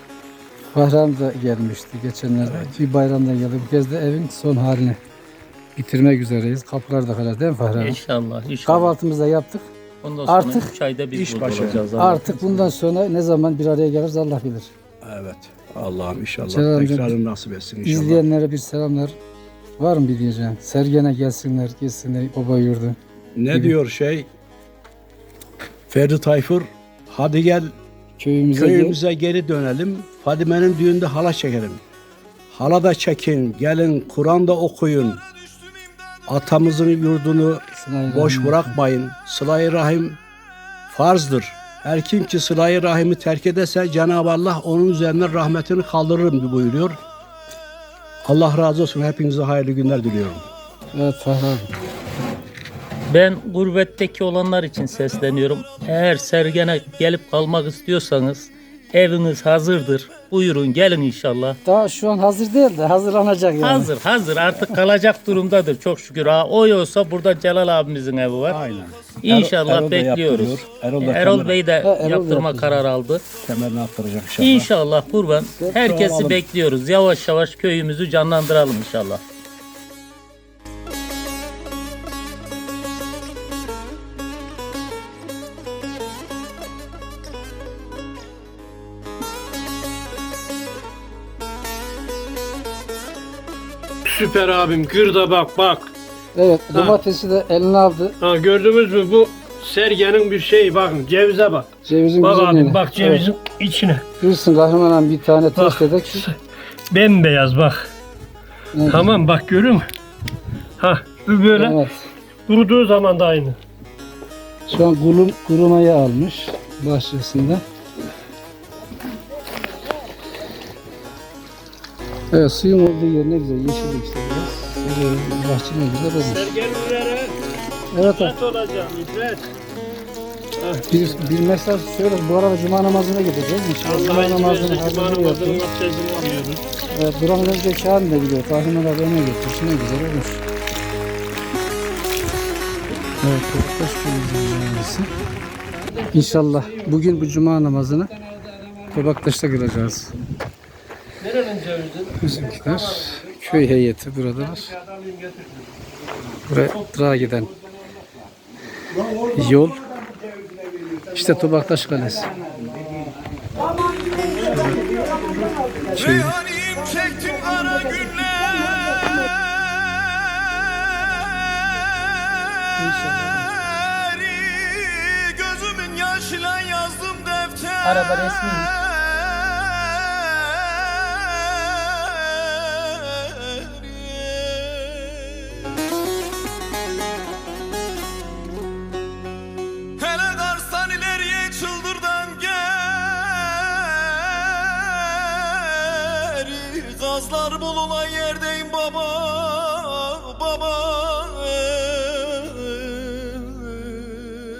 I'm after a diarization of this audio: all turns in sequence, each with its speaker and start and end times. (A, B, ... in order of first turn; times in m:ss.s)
0:00.7-0:05.0 A
0:02.4-0:02.8 B
0:05.7-0:08.0 A
0:07.8-0:08.9 C
0:08.6-0:09.7 A
0:10.0-0:12.7 C
0:10.3-0:10.7 A
0:11.1-0:11.8 B
0:12.0-0:14.7 A
0:15.0-0:18.2 B
0:16.5-0:17.1 A
0:17.8-0:19.1 A
0:19.8-0:23.0 A
0:23.4-0:24.3 B
0:25.9-0:27.7 B
0:28.2-0:29.0 A
0:28.6-0:31.8 B
0:32.5-0:35.2 B
0:36.3-0:40.2 B
0:37.7-0:38.8 A
0:40.9-0:47.0 B
0:48.2-0:50.4 B
0:50.9-0:51.7 A
0:53.1-1:01.6 C
1:01.6-1:03.9 A
1:03.6-1:08.6 C
1:08.5-1:11.6 B
1:09.2-1:13.2 C
1:11.8-1:12.8 A
1:13.4-1:14.7 B
1:14.4-1:19.2 C
1:15.6-1:16.4 B
1:34.0-1:35.9 D
1:36.3-1:38.2 A
1:38.2-1:44.0 D
1:41.8-1:43.3 A
1:44.2-1:46.3 A
1:45.5-1:46.4 D
1:46.9-1:47.9 D
1:48.7-1:49.1 A
1:48.8-1:49.9 D
1:50.8-1:51.8 D
1:51.5-1:52.0 A
1:52.5-1:53.6 D
1:54.7-1:57.6 A
2:02.3-2:06.4 A
2:06.3-2:07.4 D
2:07.9-2:08.3 A
2:08.0-2:09.5 D
2:10.6-2:11.2 D
2:10.9-2:15.6 A
2:13.8-2:16.6 D
2:16.9-2:20.4 A
2:23.2-2:25.1 A
2:25.8-2:26.8 D
2:26.1-2:28.1 A
2:28.9-2:30.2 A
2:31.2-2:33.1 D
2:32.2-2:34.7 A
2:34.7-2:35.7 D
2:36.5-2:37.5 A
2:39.3-2:39.8 A
2:41.1-2:42.3 A
2:44.5-2:44.8 A
2:45.9-2:46.4 A
2:46.4-2:47.0 C
2:46.9-2:48.7 E
2:53.6-2:58.3 E
2:57.8-2:58.7 C
2:59.2-2:59.7 B
2:59.9-3:00.6 E
3:02.0-3:05.2 E
3:10.0-3:14.3 E
3:16.7-3:21.9 E
3:21.9-3:23.9 C